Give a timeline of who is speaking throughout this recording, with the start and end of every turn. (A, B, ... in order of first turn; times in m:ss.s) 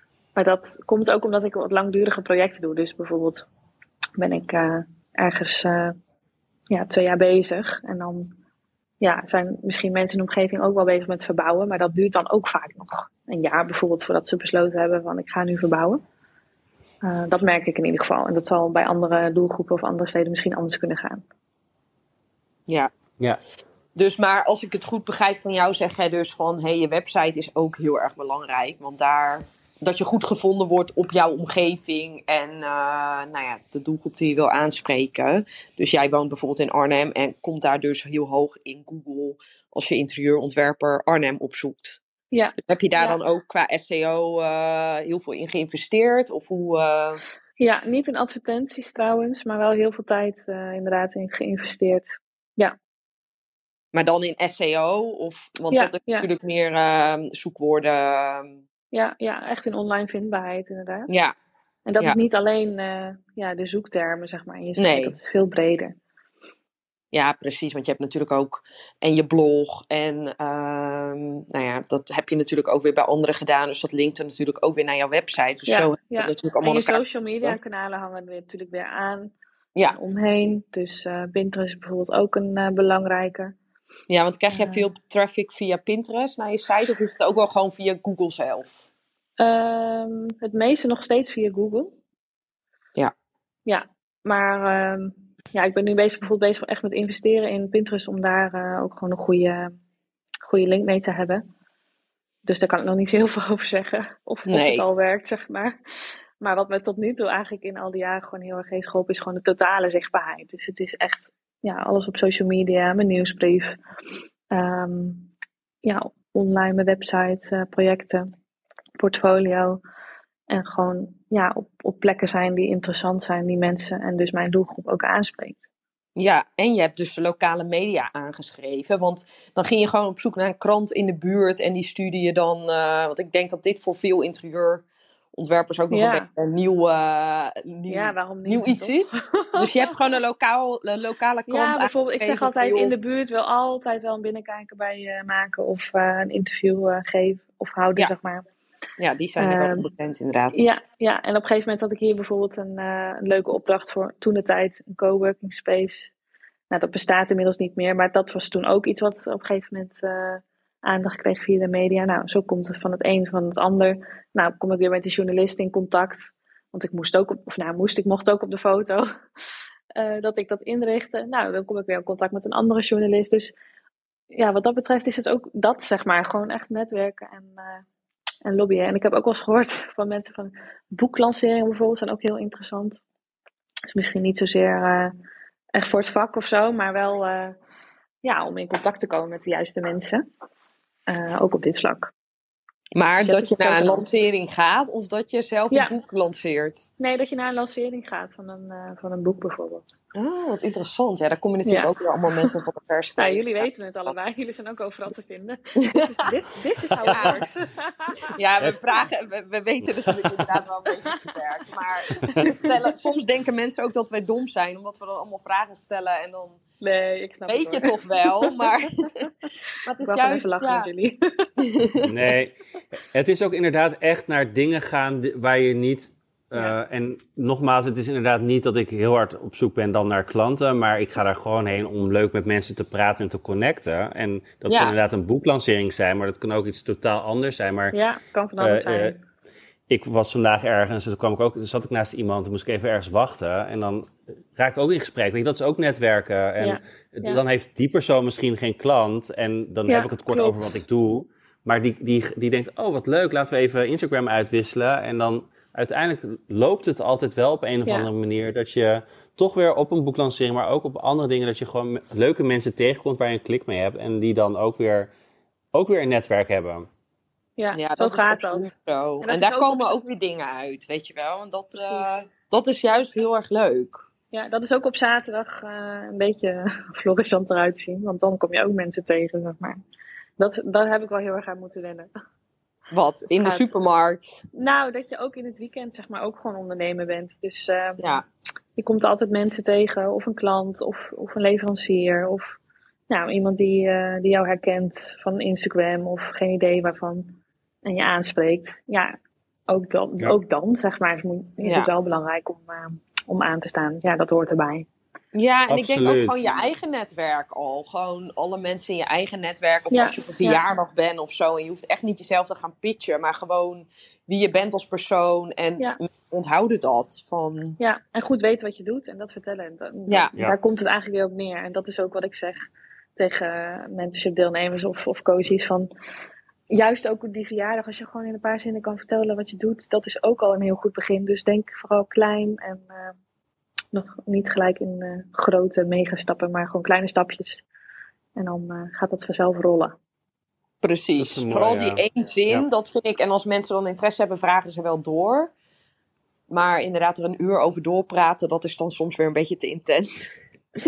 0:00.4-0:03.5 A
0:04.2-0:06.0 A
0:06.7-0:08.3 A
0:09.0-0:16.0 A
0:17.0-0:21.2 A
0:22.7-0:22.9 B
0:24.0-0:42.0 B
0:42.3-0:43.2 A
0:42.6-0:47.2 B
0:47.6-0:52.8 A
0:53.9-0:58.6 B
0:55.7-0:56.3 A
0:58.9-1:01.1 A
1:01.1-1:01.4 B
1:01.9-1:06.0 A
1:04.8-1:05.2 B
1:07.1-1:17.6 B
1:15.7-1:19.3 A
1:19.9-1:23.5 A
1:24.1-1:28.9 B
1:24.5-1:24.9 A
1:29.4-1:32.0 A
1:33.7-1:39.8 A
1:40.5-1:41.4 A
1:42.4-1:45.7 A
1:44.5-1:44.9 B
1:46.4-1:53.8 A
1:54.5-1:55.3 A
1:55.8-1:58.3 A
1:59.0-1:59.8 A
2:00.5-2:05.6 A
2:06.2-2:22.9 B
2:15.9-2:16.3 A
2:17.9-2:20.1 A
2:21.5-2:28.4 A
2:29.0-2:30.6 B
2:29.4-2:29.9 A
2:30.5-2:36.1 A
2:36.7-2:49.1 A
2:50.0-2:53.6 A
2:54.3-2:57.8 A
2:58.4-3:03.0 A
3:03.9-3:05.2 A
3:05.8-3:07.6 A
3:08.2-3:10.2 A
3:11.1-3:12.1 A
3:13.0-3:16.9 B
3:13.2-3:14.1 A
3:15.7-3:16.0 A
3:17.0-3:19.9 A
3:20.2-3:23.6 B
3:21.7-3:22.5 A
3:23.2-3:28.3 A
3:27.0-3:27.4 B
3:27.1-3:27.4 C
3:28.4-3:36.6 B
3:32.1-3:32.7 A
3:36.8-3:39.3 A
3:37.5-3:39.3 B
3:39.8-3:40.9 B
3:40.0-3:41.4 A
3:41.6-3:42.3 B
3:42.0-3:58.0 C
3:54.7-3:55.0 B
3:57.9-3:59.2 A
3:58.6-3:59.2 C
3:59.9-4:25.1 C
4:06.6-4:07.4 A
4:09.9-4:10.8 A
4:25.7-4:26.9 C
4:27.6-4:28.7 A
4:27.8-4:34.1 B
4:29.2-4:30.0 A
4:31.7-4:32.1 A
4:34.3-4:39.8 A
4:40.4-4:42.1 A
4:42.9-4:44.4 B
4:43.3-4:43.7 A
4:44.5-4:48.2 A
4:48.8-4:52.6 A
4:53.1-4:59.1 A
4:59.7-5:04.9 A
5:01.6-5:01.9 B
5:05.3-5:17.8 B
5:05.7-5:06.4 C
5:09.9-5:10.6 A
5:17.8-5:22.6 A
5:20.1-5:20.3 B
5:23.2-5:25.9 A
5:26.7-5:33.2 A
5:33.9-5:37.6 A
5:38.4-5:40.0 A
5:40.8-5:45.5 B
5:41.2-5:42.6 C
5:46.5-5:50.3 B